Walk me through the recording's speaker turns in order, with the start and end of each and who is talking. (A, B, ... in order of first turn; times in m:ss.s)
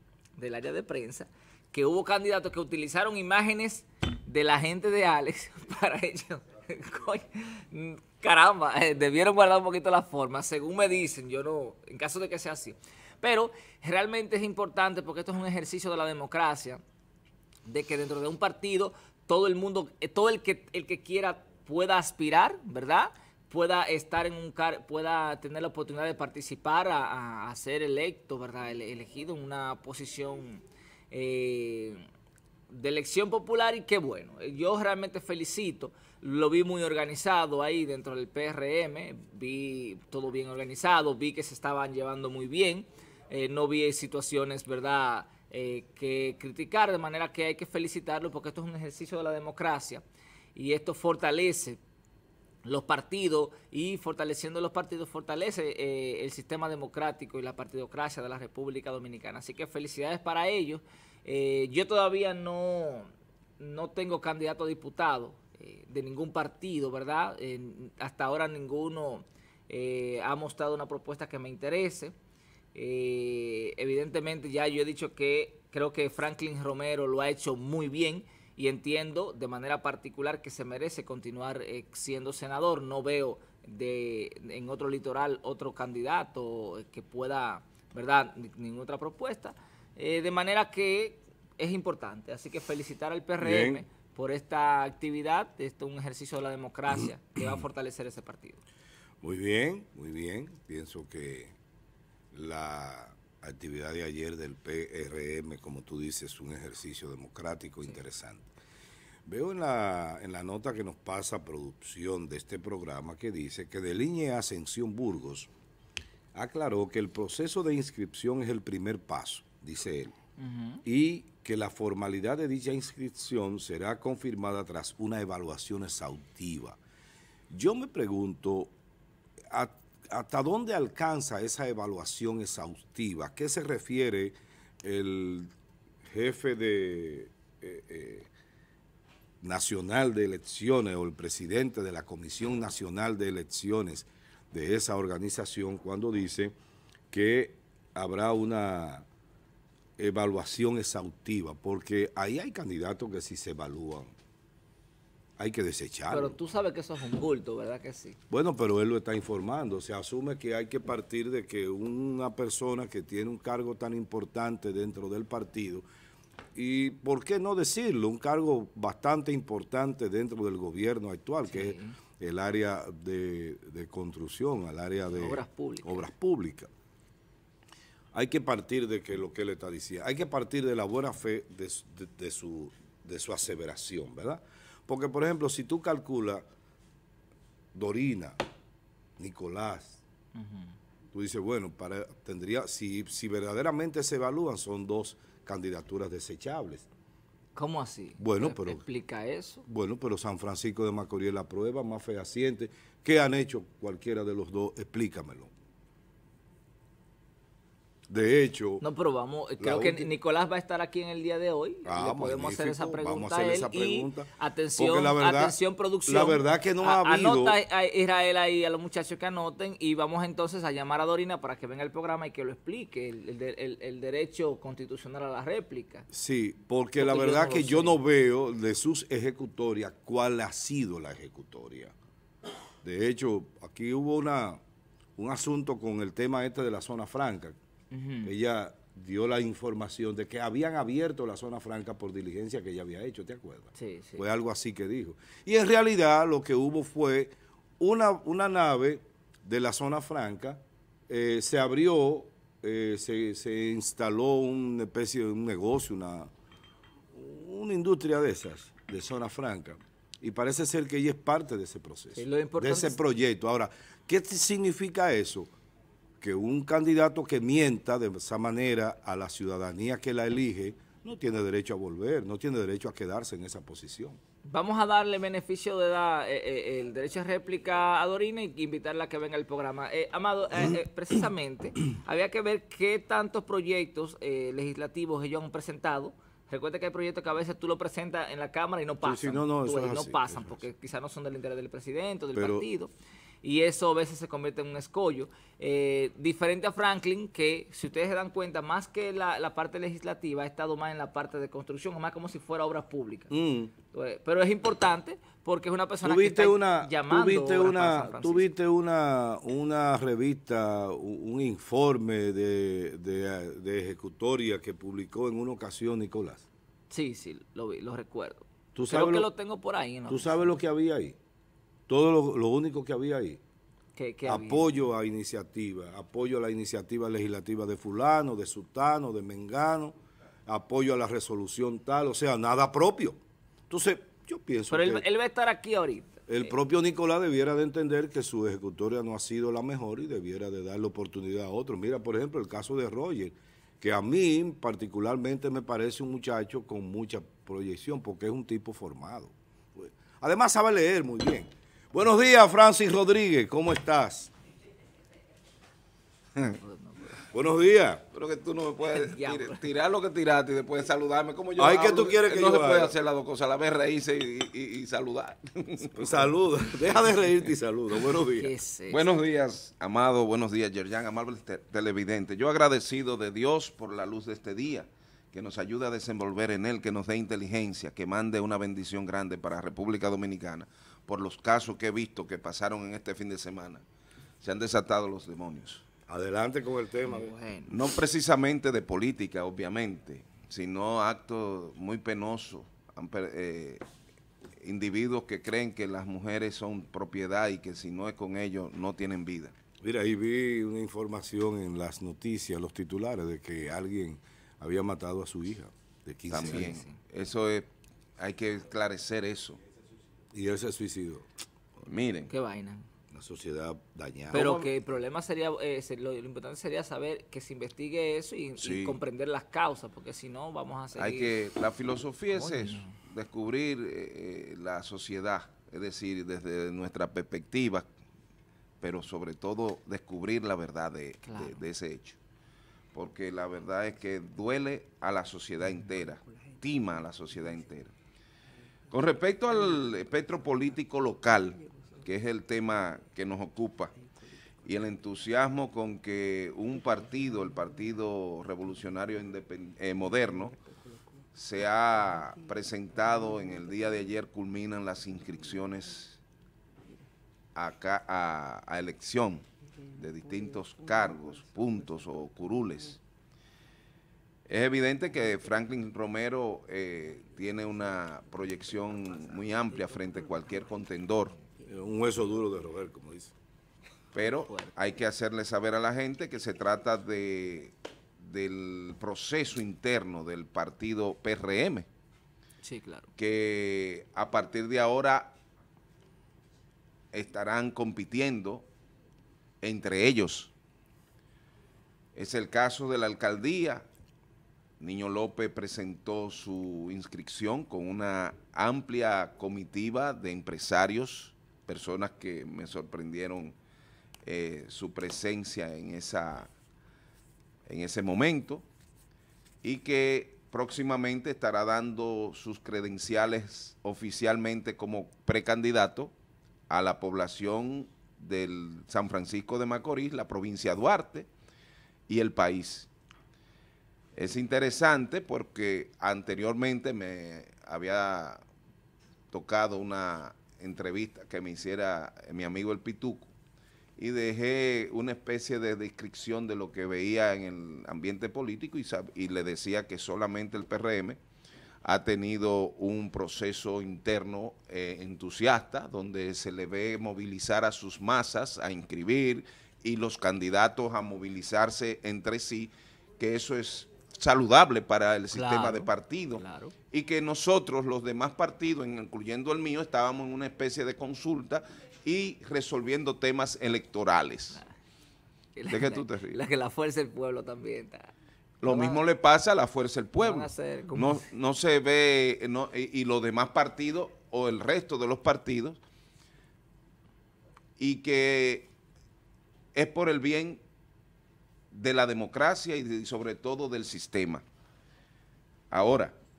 0:00.4-0:16.8 A
0:17.7-0:32.1 A
0:32.7-0:50.0 A
0:50.6-0:51.8 A
0:52.6-1:12.2 A
1:12.8-1:38.6 A
1:33.4-1:33.8 B
1:39.2-1:41.5 B
1:42.3-1:48.5 B
1:49.3-1:55.5 B
1:56.3-2:00.1 B
2:00.4-2:00.8 A
2:00.8-2:06.8 B
2:07.5-2:08.7 B
2:09.5-2:15.5 B
2:16.1-2:18.3 B
2:19.4-2:26.5 B
2:27.1-2:29.1 B
2:30.0-2:34.1 B
2:35.4-2:36.4 B
2:36.1-2:38.2 A
2:38.3-2:45.9 B
2:46.6-2:56.7 B
2:51.5-2:52.0 A
2:55.1-2:56.0 A
2:58.1-3:06.4 B
3:07.8-3:08.4 B
3:09.2-3:10.0 B
3:10.4-3:10.8 A
3:11.1-3:16.9 B
3:17.6-3:19.6 A
3:18.2-3:18.8 B
3:19.6-3:25.5 B
3:28.1-3:28.8 B
3:28.8-3:46.1 A
3:29.6-3:30.1 B
3:31.8-3:37.6 B
3:46.1-3:52.0 B
3:47.0-3:48.0 A
3:52.8-3:54.6 B
3:55.2-3:57.6 B
3:57.9-3:58.3 A
3:58.2-4:16.3 B
4:03.8-4:04.2 A
4:17.2-4:25.5 B
4:22.2-4:23.0 A
4:26.2-4:34.2 B
4:34.4-4:52.9 A
4:49.0-4:50.6 B
4:52.3-4:52.7 B
4:53.4-5:03.3 A
5:03.3-5:03.7 B
5:03.9-5:08.5 A
5:06.0-5:16.4 B
5:16.9-5:20.4 A
5:18.8-5:19.3 B
5:20.1-5:21.2 B
5:21.9-5:23.4 B
5:24.0-5:24.7 A
5:24.3-5:35.1 B
5:34.7-5:36.2 A
5:36.3-5:54.3 B
5:56.6-5:57.2 A
5:57.3-5:58.0 B
5:58.1-6:06.8 C
5:58.9-5:59.6 A
6:01.6-6:03.0 B
6:05.9-6:08.5 B
6:08.2-6:09.0 A
6:08.9-6:23.8 C
6:24.4-6:25.8 C
6:26.1-6:27.3 B
6:27.0-6:27.8 A
6:27.7-6:33.8 C
6:34.6-6:39.6 C
6:39.8-6:46.8 B
6:46.3-6:49.6 C
6:46.4-6:46.9 A
6:50.3-6:51.3 B
6:51.8-6:52.3 C
6:52.3-6:52.9 A
6:53.1-6:54.5 B
6:54.3-7:01.4 A
6:54.3-6:54.7 C
6:58.6-6:59.0 B
7:01.0-7:07.9 C
7:02.3-7:03.0 A
7:08.8-7:12.2 C
7:11.3-7:11.6 A
7:12.9-7:17.9 C
7:18.9-7:23.9 C
7:24.6-7:30.6 C
7:31.4-7:36.2 C
7:37.6-7:43.0 C
7:44.5-7:51.4 C
7:51.7-7:53.3 B
7:54.1-8:01.9 C
7:54.4-7:54.7 A
8:02.6-8:03.1 A
8:03.2-8:05.3 C
8:07.1-8:08.7 C
8:09.6-8:10.5 C
8:12.2-8:13.8 C
8:14.8-8:23.6 C
8:24.2-8:26.5 C
8:27.7-8:28.6 C
8:29.6-8:36.1 C
8:36.7-8:41.3 C
8:42.1-8:42.9 C
8:44.2-8:48.4 C
8:49.3-8:53.3 C
8:54.0-9:01.2 C
9:01.8-9:24.6 C
9:15.3-9:16.8 A
9:25.6-9:28.1 A
9:25.7-9:26.4 C
9:28.6-9:35.8 C
9:28.6-9:29.0 A
9:30.2-9:31.2 A
9:37.8-9:38.7 C
9:39.8-9:40.6 C
9:41.7-9:44.4 C
9:45.7-9:46.2 C